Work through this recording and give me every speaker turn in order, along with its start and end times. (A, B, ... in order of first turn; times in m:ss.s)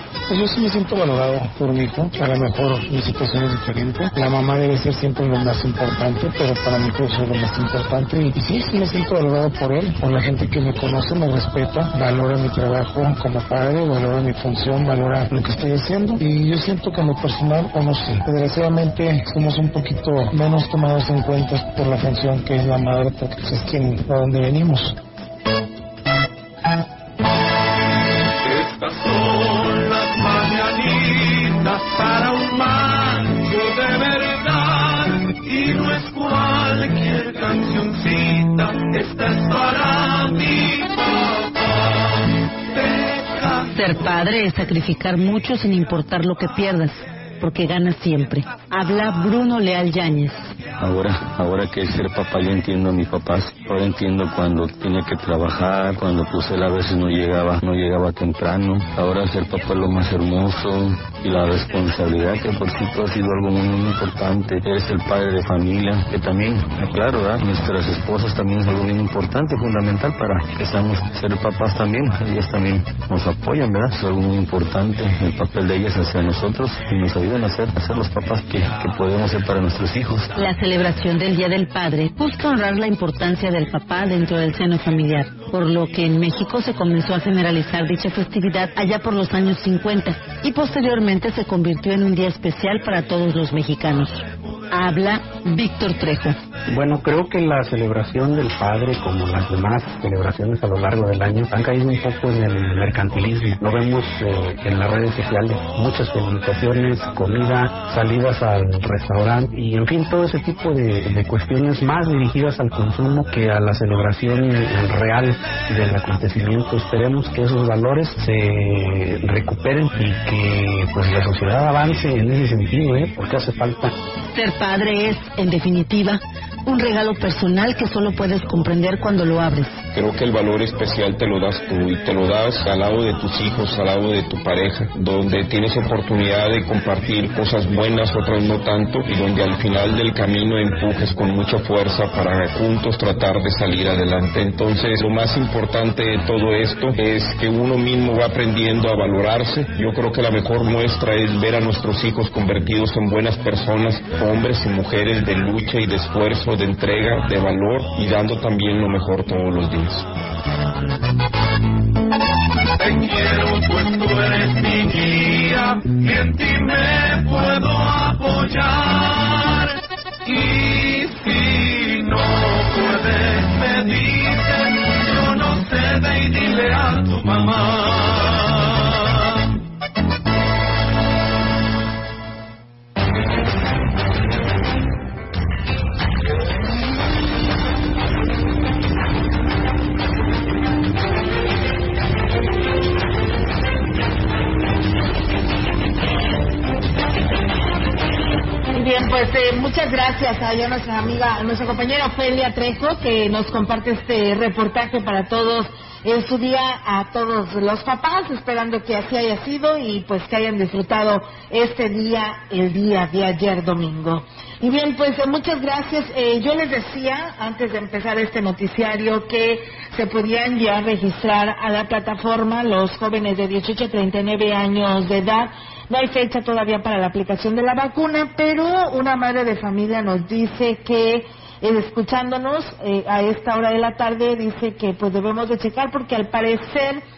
0:00.3-0:25.0 A
0:28.4-0:41.8 B
0:42.7-0:43.6 B
0:43.7-0:50.5 C
0:50.8-1:20.3 D
1:20.4-1:36.4 C
1:36.7-2:03.9 E
2:04.3-2:09.8 C
2:09.9-2:40.1 F
2:42.8-2:49.7 B
2:50.2-2:59.2 B
3:18.7-3:57.0 G